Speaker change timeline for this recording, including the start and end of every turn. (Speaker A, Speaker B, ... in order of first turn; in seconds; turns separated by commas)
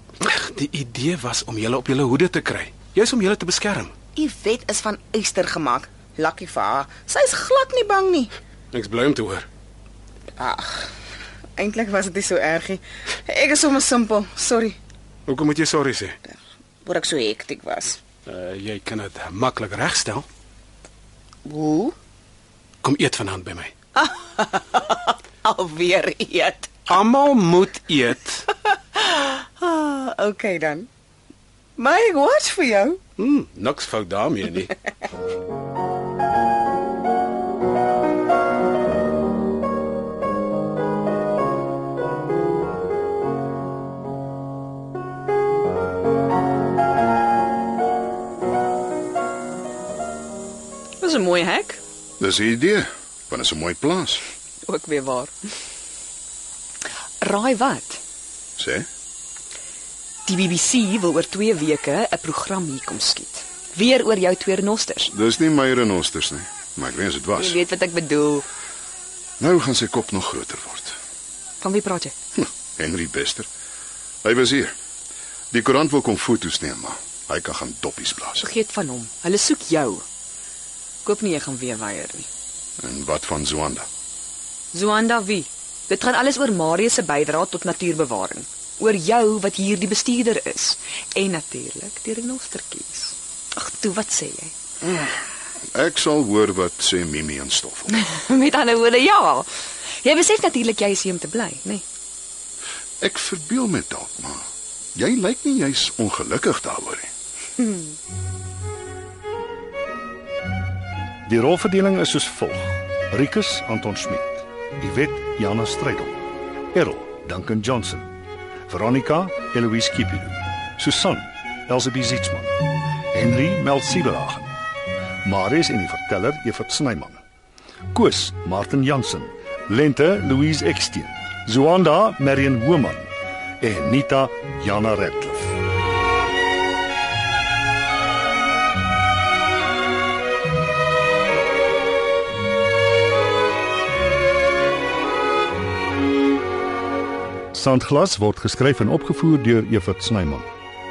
Speaker A: 0.2-3.9, Speaker B: 4.2-8.3, Speaker A: 8.7-9.5, Speaker B: 10.4-10.9, Speaker B: 11.6-14.8, Speaker A: 15.3-16.2, Speaker B: 16.3-18.0, Speaker A: 18.3-20.3, Speaker B: 21.4-21.9, Speaker A: 22.8-23.7, Speaker B: 24.0-26.9, Speaker A: 26.9-28.4, Speaker B: 28.5-30.9, Speaker B: 31.8-33.0, Speaker A: 33.2-34.7, Speaker C: 51.0-51.8, Speaker D: 52.2-54.2, Speaker C: 54.6-55.3, Speaker C: 57.2-58.0, Speaker D: 58.6-58.9, Speaker C: 60.3-65.1, Speaker D: 65.1-67.6, Speaker C: 67.4-68.5, Speaker D: 69.4-71.0, Speaker C: 71.6-72.1, Speaker D: 72.4-73.5, Speaker D: 74.2-74.7, Speaker D: 75.5-78.3, Speaker C: 78.4-80.0, Speaker C: 81.0-82.3, Speaker E: 82.8-83.8, Speaker D: 82.9-83.9, Speaker C: 84.7-94.5, Speaker E: 95.8-97.9, Speaker D: 96.0-97.5, Speaker C: 97.9-99.5, Speaker C: 100.0-101.8, Speaker E: 103.0-104.4, Speaker D: 103.7-104.4, Speaker E: 105.0-107.1, Speaker D: 105.0-106.8, Speaker E: 111.3-116.2, Speaker E: 116.7-118.0, Speaker E: 118.7-122.5, Speaker E: 123.1-124.5, Speaker E: 125.2-127.2, Speaker E: 127.9-133.1, Speaker E: 133.6-135.5, Speaker E: 147.5-150.5